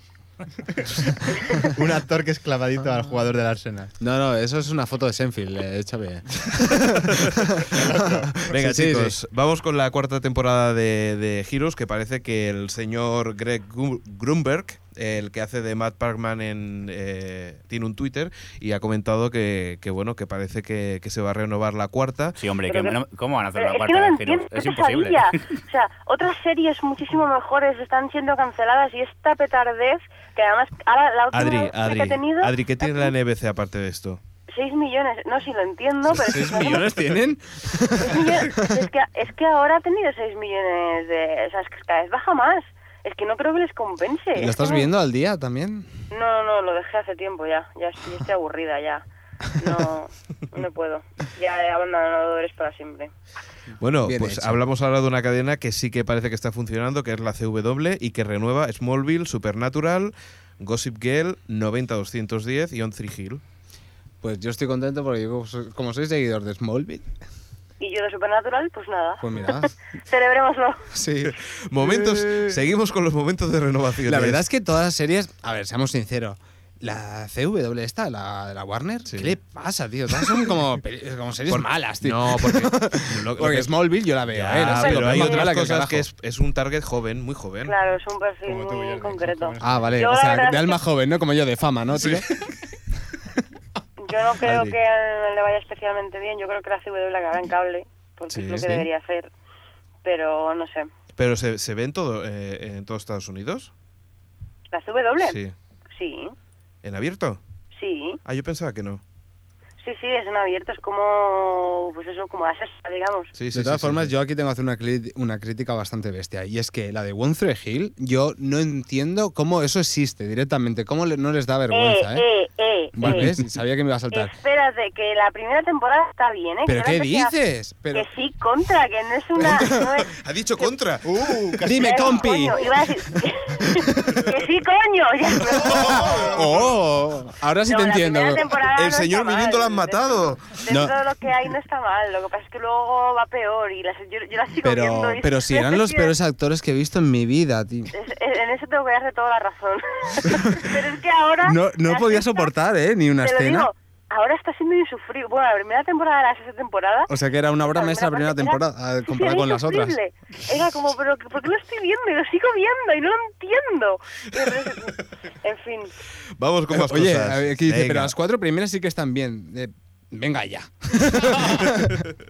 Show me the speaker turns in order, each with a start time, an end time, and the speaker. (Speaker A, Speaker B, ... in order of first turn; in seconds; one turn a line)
Speaker A: 0.6-3.9
Speaker B: 4.0-9.2
Speaker A: 7.7-8.5
Speaker C: 8.5-22.4
Speaker D: 22.4-25.4
Speaker E: 22.7-23.0
Speaker E: 23.5-33.1
Speaker C: 31.3-34.2
Speaker E: 34.5-36.9
Speaker B: 36.1-38.8
Speaker E: 38.0-44.9
Speaker B: 44.3-45.9
Speaker E: 46.1-49.0
Speaker E: 49.6-53.1
Speaker C: 53.8-63.4
Speaker B: 54.0-54.6
Speaker B: 64.2-67.1
Speaker E: 67.8-70.8
Speaker B: 69.2-69.7
Speaker B: 70.9-72.6
Speaker C: 71.3-74.4
Speaker B: 74.0-86.0
Speaker C: 79.0-79.4
Speaker C: 81.5-87.7
Speaker E: 84.6-85.5
Speaker E: 87.6-90.8
Speaker A: 88.4-90.2
Speaker B: 89.6-92.3
Speaker C: 91.9-92.3
Speaker E: 94.0-99.3
Speaker C: 94.4-94.8
Speaker C: 98.3-98.8
Speaker E: 100.0-100.9
Speaker C: 101.2-103.7
Speaker E: 104.7-105.4
Speaker C: 105.2-105.5
Speaker E: 105.9-106.3
Speaker C: 106.8-107.4
Speaker E: 107.8-108.2
Speaker C: 108.2-109.0
Speaker E: 109.8-113.3
Speaker C: 113.3-114.1
Speaker B: 113.5-122.2
Speaker E: 121.7-123.3
Speaker B: 122.9-124.3
Speaker E: 124.1-127.3
Speaker B: 126.7-128.1
Speaker E: 127.9-130.7
Speaker B: 129.4-130.0
Speaker C: 130.1-131.3
Speaker A: 131.0-132.6
Speaker B: 131.6-133.2
Speaker E: 131.7-136.6
Speaker B: 133.8-134.2
Speaker C: 135.6-136.7
Speaker B: 135.6-138.7
Speaker E: 137.6-146.1
Speaker C: 138.7-140.7
Speaker B: 140.7-141.0
Speaker B: 144.6-147.9
Speaker E: 147.9-152.5
Speaker B: 150.2-150.7
Speaker B: 151.4-153.7
Speaker E: 153.2-157.1
Speaker B: 157.1-159.9
Speaker E: 157.7-165.9
Speaker C: 166.4-168.1
Speaker B: 166.7-172.0